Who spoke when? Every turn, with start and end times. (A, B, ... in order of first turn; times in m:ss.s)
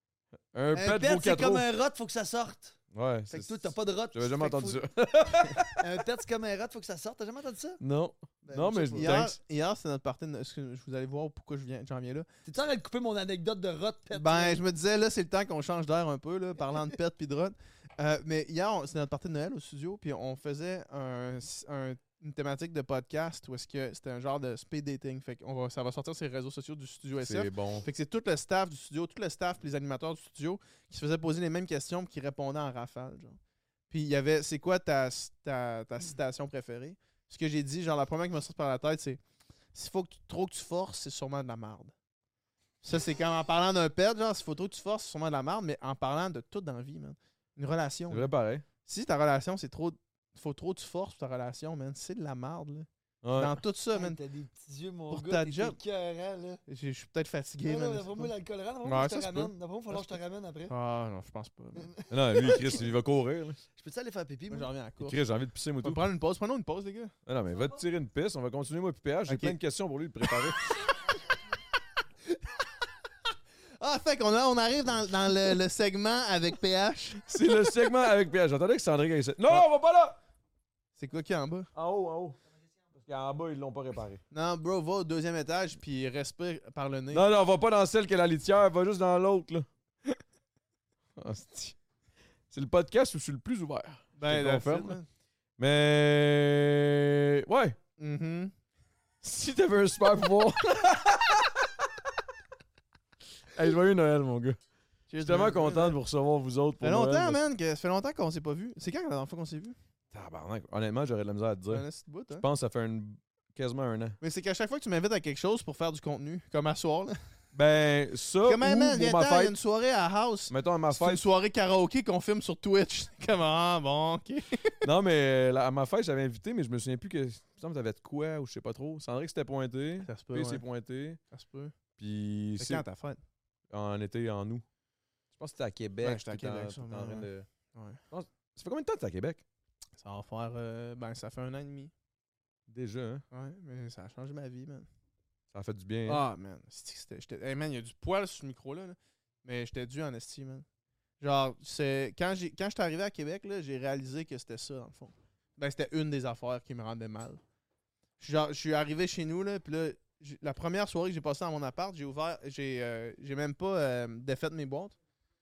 0:00.5-0:01.7 A
0:00.7-0:02.8 B
0:02.9-0:05.8 A
0:03.3-0:04.8 B
0:05.8-0:07.8 B
0:07.8-0:09.4 A
0:08.4-0:09.2 B
0:08.9-0:12.3 C
0:12.5-0:14.6 B
0:14.1-0:33.4 C
0:27.2-0:27.9 A
0:33.9-0:39.2 C
0:39.7-0:41.9 C
0:42.8-0:48.3 C
0:48.1-0:48.6 A
0:48.8-0:54.2 C
0:53.2-0:53.6 A
0:54.0-0:56.6 B
0:55.1-0:55.8 C
0:56.7-0:58.3 C
0:57.6-1:00.7 B
0:58.8-1:01.9 C
1:01.8-1:02.9 B
1:02.1-1:03.6 A
1:03.8-1:04.7 B
1:04.5-1:05.2 C
1:05.0-1:06.0 A
1:05.8-1:07.1 C
1:07.3-1:10.6 A
1:09.3-1:09.6 C
1:10.2-1:10.8 C
1:13.8-1:17.3 C
1:17.3-1:20.2 A
1:21.0-1:21.7 C
1:21.8-1:22.4 A
1:23.0-1:24.2 A
1:24.3-1:27.2 C
1:27.1-1:29.7 A
1:31.2-1:31.8 A
1:32.5-1:35.0 A
1:34.2-1:35.1 C
1:35.6-1:37.8 A
1:38.0-1:38.5 C
1:39.2-1:41.9 A
1:43.5-1:44.6 A
1:45.1-1:46.0 C
1:45.2-1:47.4 A
1:46.8-1:49.8 C
1:50.1-1:54.2 A
1:51.7-1:52.5 C
1:54.2-1:57.2 C
1:57.5-1:59.6 A
1:58.4-2:04.8 C
2:00.5-2:01.2 A
2:04.8-2:11.2 A
2:10.0-2:10.6 C
2:11.3-2:11.7 C
2:12.0-2:12.8 A
2:12.6-2:13.2 C
2:13.7-2:14.6 A
2:15.4-2:17.5 A
2:16.0-2:18.0 C
2:18.1-2:19.4 A
2:20.0-2:21.9 C
2:22.7-2:23.2 A
2:23.3-2:24.9 C
2:25.5-2:26.2 A
2:26.1-2:30.6 C
2:31.2-2:37.4 C
2:38.2-2:45.0 C